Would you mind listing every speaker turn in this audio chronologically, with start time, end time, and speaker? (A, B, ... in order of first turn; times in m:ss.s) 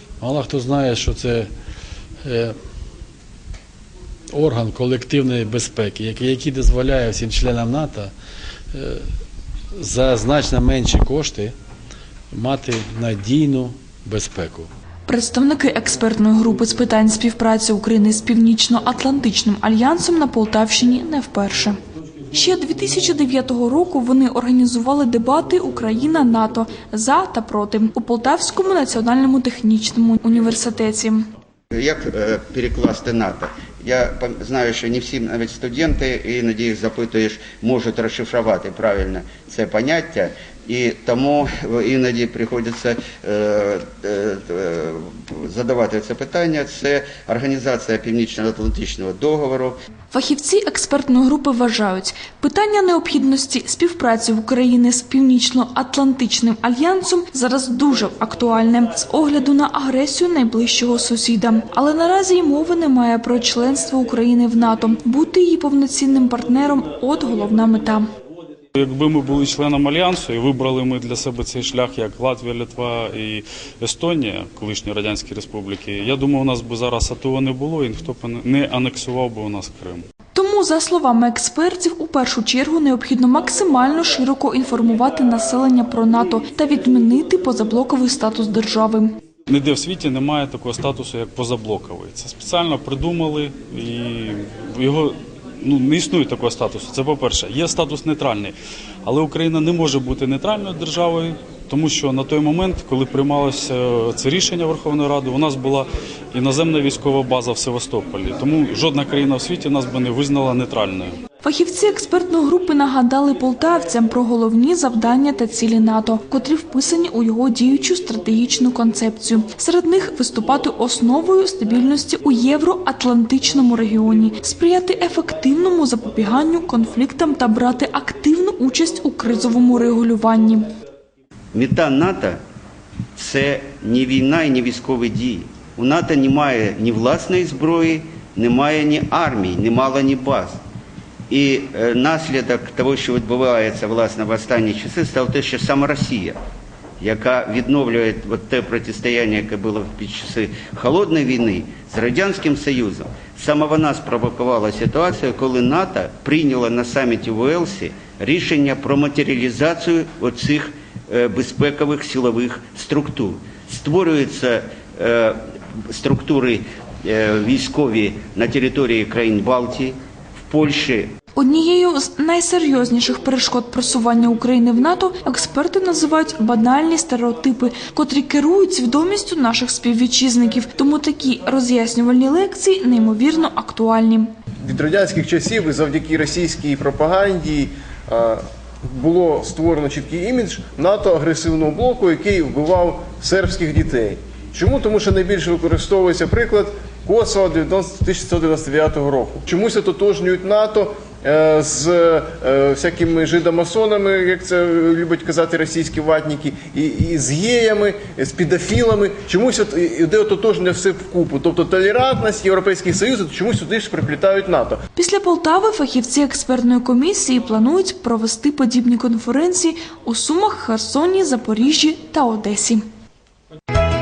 0:00.2-0:01.5 A
0:02.2-0:02.6 A
0:04.3-0:08.1 A
0:08.7-0:09.0 A
0:09.8-0:11.5 A
0:12.3-0:14.7 A
0:15.0-0:21.8 B
0:22.3-0:31.3 B
0:31.7-0:49.8 C
0:50.1-1:08.1 B
1:08.7-1:20.0 D
1:20.3-1:29.2 B
1:29.5-1:51.2 D
1:51.4-2:10.7 B
2:11.5-2:12.4 C
2:13.2-2:20.6 C
2:21.3-2:26.4 C
2:27.0-2:45.4 C
2:45.9-2:50.0 C
2:50.5-2:51.1 C
2:51.4-3:04.3 B
3:04.6-3:34.8 E
3:34.9-3:42.8 B